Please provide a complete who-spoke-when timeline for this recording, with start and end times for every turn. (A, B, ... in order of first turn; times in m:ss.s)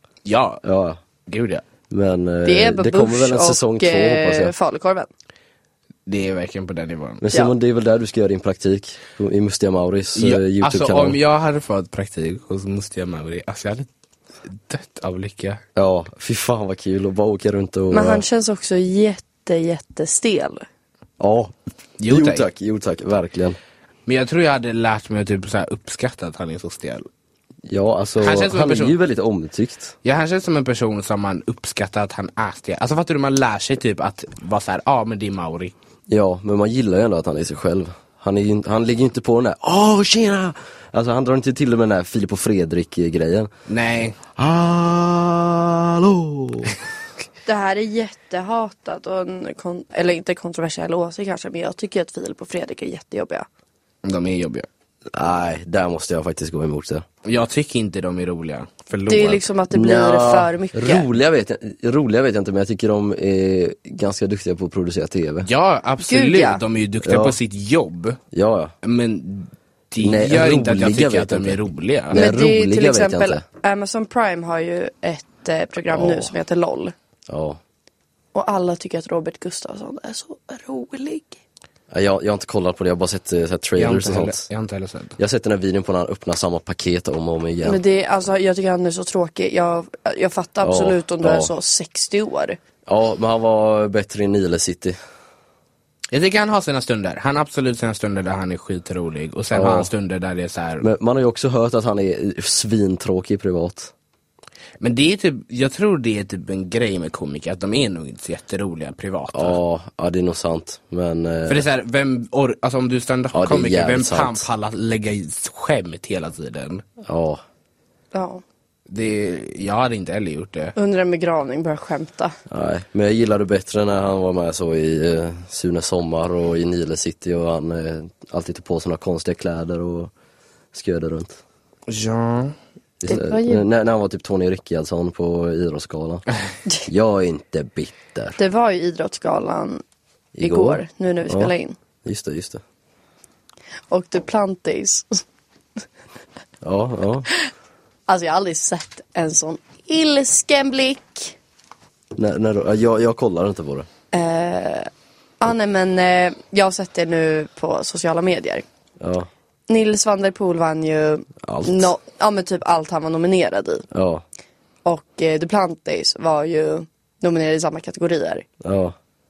0:00.2-0:00.6 A
0:00.6-0:01.0 B
0:01.3-0:01.6 A
0:01.9-0:04.5 B
0:02.4-0:05.1 C
0:06.1-0:07.2 A
0:07.2-0:11.2 B
0:10.2-0:13.9 A
0:14.5-0:15.6 A
0:15.8-0:18.2 B
0:17.9-0:20.7 C
0:21.2-0:21.5 B
0:22.0-0:22.5 A
0:22.1-0:23.6 B
0:24.1-0:27.1 A
0:27.7-0:30.0 B
0:28.2-0:29.0 A
0:30.0-0:35.7 A
0:36.1-0:43.5 B
0:43.7-0:44.2 A
0:44.3-0:46.8 B
0:47.5-0:53.5 C
0:54.0-0:54.7 A
0:55.1-0:57.1 B
0:57.2-0:59.4 A
0:59.1-1:01.1 C
0:59.7-1:05.5 B
1:05.4-1:08.2 A
1:06.0-1:06.6 C
1:07.0-1:07.4 B
1:08.3-1:08.7 B
1:08.8-1:12.2 A
1:10.0-1:13.4 B
1:12.1-1:16.9 C
1:15.9-1:16.3 B
1:17.3-1:17.6 B
1:18.3-1:21.4 C
1:21.9-1:24.4 B
1:23.8-1:25.2 A
1:25.2-1:27.8 B
1:27.6-1:32.6 C
1:30.6-1:31.5 B
1:32.9-1:35.0 B
1:36.1-1:40.8 A
1:39.5-1:39.9 B
1:40.8-1:43.9 B
1:44.8-1:49.6 A
1:49.3-1:51.6 B
1:51.5-1:56.8 A
1:53.3-1:54.5 B
1:57.0-1:57.4 B
1:58.1-1:58.4 C
1:58.9-2:00.8 A
2:00.8-2:02.3 C
2:02.5-2:10.1 B
2:10.7-2:11.4 B
2:11.9-2:12.5 A
2:13.0-2:16.3 B
2:13.1-2:13.7 C
2:16.8-2:18.4 B
2:18.4-2:19.8 C
2:20.3-2:21.5 B
2:20.4-2:21.8 C
2:22.0-2:22.6 B
2:23.9-2:25.2 C
2:26.6-2:27.3 B
2:28.1-2:31.4 C
2:32.2-2:33.9 B
2:34.1-2:38.6 C
2:39.0-2:39.3 B
2:39.7-2:43.8 C
2:41.4-2:41.9 B
2:43.9-2:44.2 B
2:44.8-2:48.5 C
2:48.6-2:49.0 B